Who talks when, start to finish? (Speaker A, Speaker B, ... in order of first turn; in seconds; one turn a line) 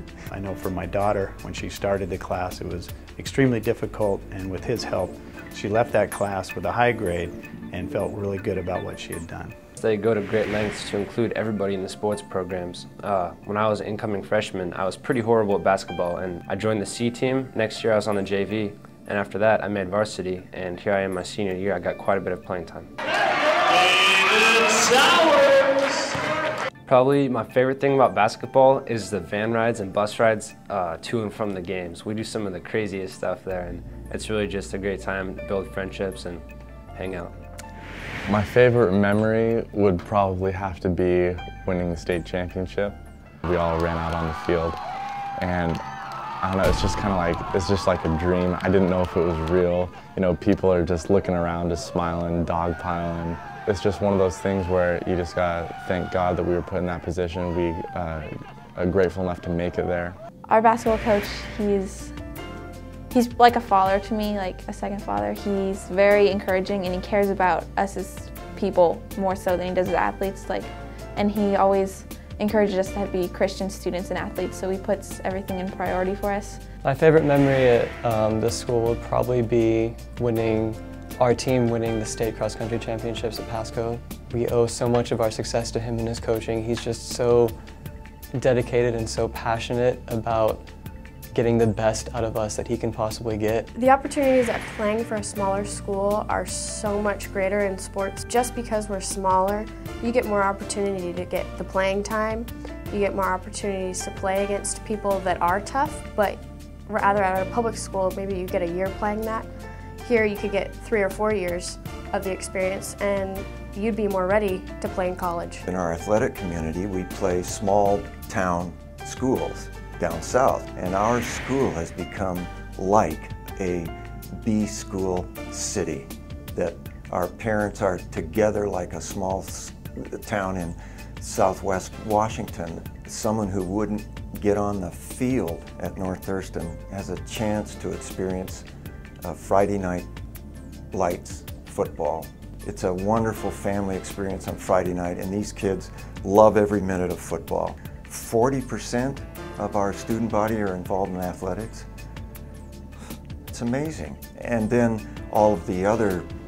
Speaker A: 0.3-9.5
Speaker B: 9.8-22.9
Speaker B: 24.3-25.6
Speaker B: 26.9-36.4
Speaker B: 36.9-37.3
Speaker C: 38.3-44.8
Speaker C: 45.4-45.8
Speaker C: 46.4-60.2
Speaker D: 60.5-62.1
Speaker D: 63.1-76.6
Speaker E: 76.8-87.5
Speaker E: 88.3-90.6
Speaker E: 91.3-93.7
Speaker F: 93.7-109.5
Speaker F: 110.0-115.6
Speaker G: 115.7-138.7
Speaker G: 139.2-140.1
Speaker G: 140.9-151.8
Speaker G: 153.5-156.3